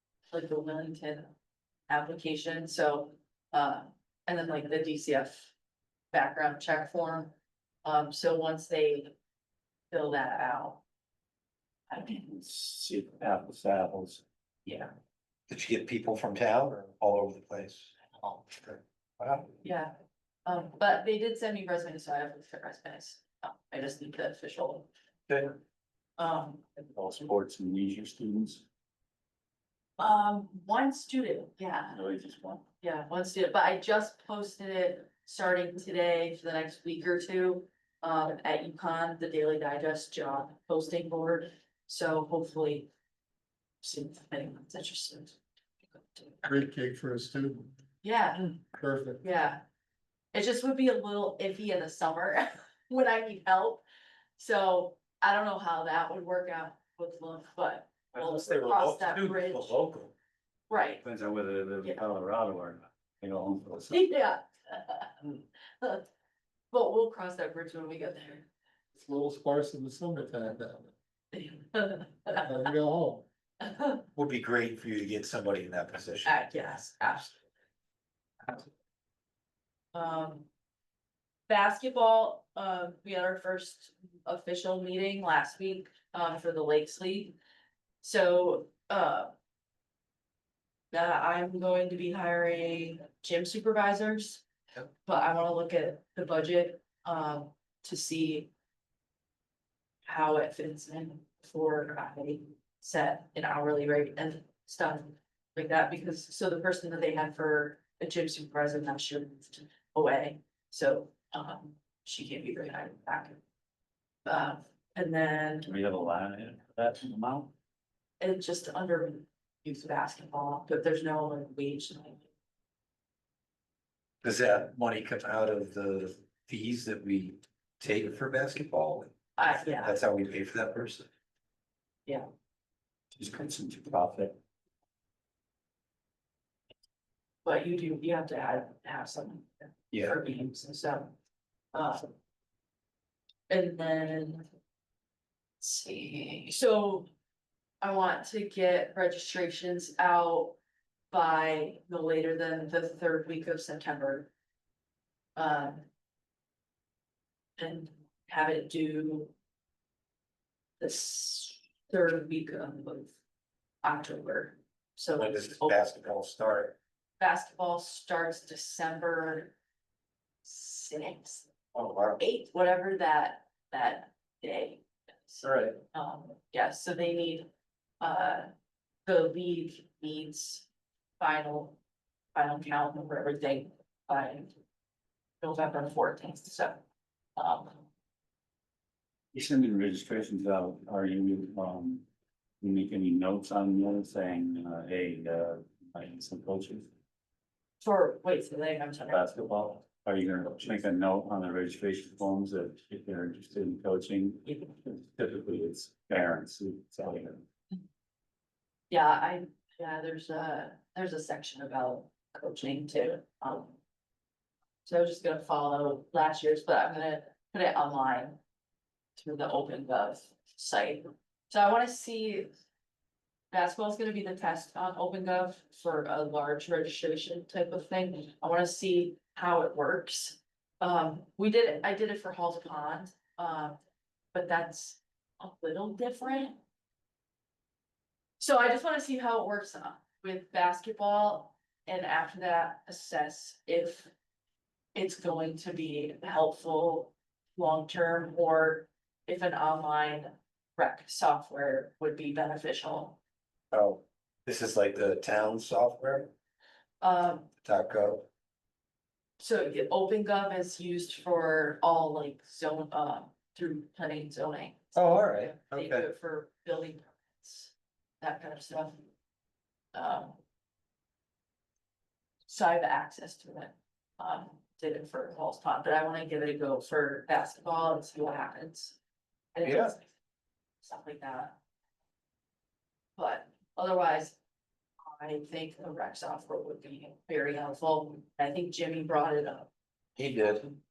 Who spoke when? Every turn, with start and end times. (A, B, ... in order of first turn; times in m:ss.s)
0:00.3-0:01.3 A
0:01.9-0:05.5 A
0:06.1-0:07.3 A
0:07.8-0:09.1 A
0:09.9-0:10.8 A
0:11.9-0:12.2 A
0:12.2-0:14.2 B
0:14.6-0:14.9 A
0:15.5-0:19.5 C
0:19.6-0:19.9 A
0:20.4-0:24.9 A
0:25.3-0:25.5 C
0:26.2-0:26.7 A
0:26.9-0:28.6 B
0:30.0-0:32.0 A
0:31.9-0:32.6 B
0:32.8-0:42.9 A
0:43.8-0:45.4 A
0:45.9-0:46.4 A
0:46.4-0:47.7 D
0:48.0-0:48.6 A
0:48.8-0:49.2 D
0:49.2-0:49.6 A
0:50.3-0:53.8 A
0:54.4-0:59.8 A
0:58.1-1:00.1 C
1:00.7-1:01.0 A
1:01.0-1:04.0 B
1:03.9-1:06.1 A
1:06.7-1:08.5 A
1:09.0-1:10.9 D
1:11.3-1:12.7 A
1:12.4-1:13.3 D
1:13.6-1:14.0 A
1:14.1-1:16.3 C
1:16.2-1:17.4 A
1:19.9-1:20.5 A
1:21.5-1:27.4 A
1:28.0-1:29.3 A
1:30.9-1:34.4 A
1:35.0-1:38.5 A
1:40.0-1:53.4 A
1:54.2-1:55.7 A
1:55.6-1:57.5 B
1:58.2-2:02.2 A
2:04.2-2:09.1 C
2:09.4-2:10.0 A
2:09.8-2:11.1 C
2:13.1-2:14.4 B
2:17.4-2:21.1 A
2:21.7-2:22.1 A
2:23.5-2:24.5 A
2:25.6-2:27.1 A
2:27.8-2:30.6 A
2:31.1-2:34.3 A
2:35.4-2:35.8 A
2:37.6-2:39.3 A
2:40.8-2:43.2 A
2:43.8-2:45.8 A
2:45.2-2:46.8 C
2:47.2-2:49.5 A
2:50.4-2:51.5 A
2:51.7-2:52.2 C
2:52.2-2:57.5 A
2:55.4-2:55.7 C
2:58.0-2:58.5 A
2:59.0-3:00.6 A
3:01.2-3:01.8 A
3:02.3-3:04.6 A
3:05.4-3:06.8 A
3:07.4-3:07.8 A
3:09.3-3:12.0 B
3:12.6-3:16.9 B
3:17.8-3:19.2 A
3:19.1-3:27.4 B
3:28.9-3:33.8 A
3:34.8-3:38.4 A
3:39.2-3:42.5 A
3:43.5-3:53.8 A
3:54.3-3:56.6 A
3:58.4-4:04.1 A
4:04.9-4:13.2 A
4:13.7-4:16.3 C
4:17.0-4:17.5 A
4:17.6-4:18.3 C
4:19.4-4:29.1 A
4:24.9-4:26.1 C
4:29.9-4:30.4 A
4:32.5-4:39.0 A
4:39.5-4:40.1 A
4:39.6-4:39.9 C
4:40.8-4:41.6 A
4:43.2-4:44.4 A
4:45.0-4:49.7 A
4:50.2-4:50.7 C